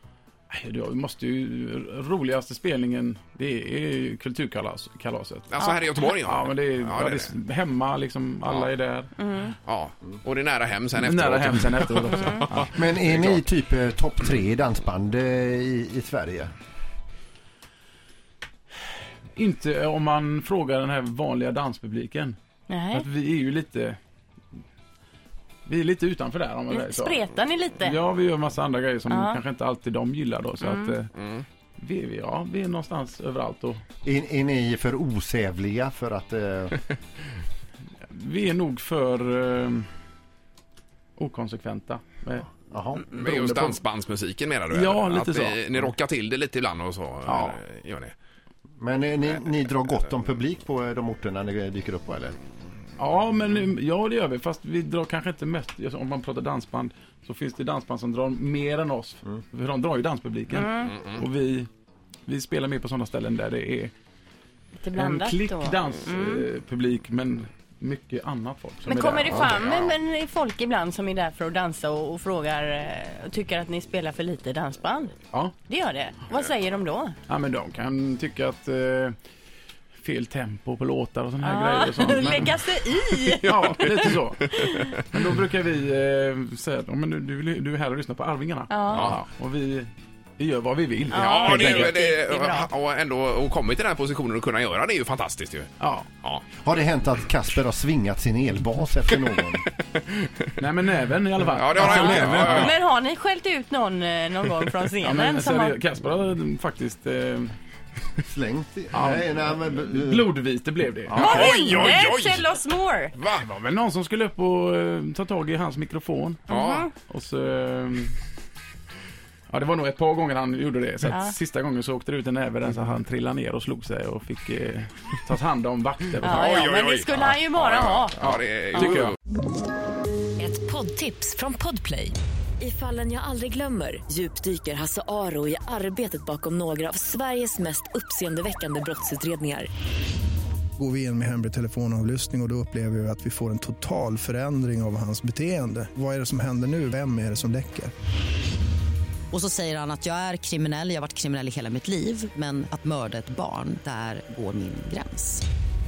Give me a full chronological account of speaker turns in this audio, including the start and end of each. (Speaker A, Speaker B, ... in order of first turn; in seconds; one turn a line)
Speaker A: 0.5-5.5
Speaker B: 5.5-7.3
Speaker A: 6.0-9.1
Speaker C: 9.2-9.5
Speaker B: 9.6-13.4
Speaker A: 11.0-12.8
Speaker D: 12.7-16.5
Speaker A: 19.3-22.4
Speaker C: 22.7-23.1
Speaker A: 22.9-24.0
Speaker A: 25.6-27.2
Speaker C: 26.7-28.0
Speaker A: 27.8-31.1
Speaker C: 29.1-29.4
Speaker C: 30.6-30.9
Speaker B: 31.1-31.4
Speaker A: 31.8-33.8
Speaker D: 34.0-36.8
Speaker A: 38.0-39.9
Speaker A: 41.2-43.8
Speaker D: 42.7-43.0
Speaker B: 43.1-48.1
Speaker A: 44.7-45.9
Speaker A: 47.2-47.6
Speaker D: 48.8-52.4
Speaker A: 53.0-61.7
Speaker C: 60.5-61.0
Speaker A: 62.3-63.9
Speaker C: 64.8-66.5
Speaker A: 65.0-69.5
Speaker C: 68.8-77.1
Speaker B: 69.4-70.0
Speaker A: 77.3-79.1
Speaker A: 80.0-82.6
Speaker C: 81.4-84.9
Speaker A: 83.2-92.0
Speaker B: 83.4-83.8
Speaker C: 88.7-89.1
Speaker B: 88.9-89.2
Speaker C: 91.1-92.7
Speaker B: 91.2-95.7
Speaker A: 95.8-96.1
Speaker D: 96.6-99.7
Speaker A: 100.6-102.8
Speaker B: 101.5-102.7
Speaker C: 101.8-105.8
Speaker A: 105.0-107.5
Speaker D: 108.2-110.3
Speaker A: 108.9-111.8
Speaker B: 111.1-112.5
Speaker C: 111.1-113.1
Speaker B: 113.1-113.4
Speaker A: 113.4-118.2
Speaker B: 116.5-116.9
Speaker C: 116.5-116.9
Speaker A: 119.5-126.5
Speaker C: 121.0-121.3
Speaker C: 126.2-128.2
Speaker B: 126.3-129.1
Speaker A: 128.2-129.1
Speaker E: 130.4-139.7
Speaker F: 140.8-147.9
Speaker G: 149.3-155.4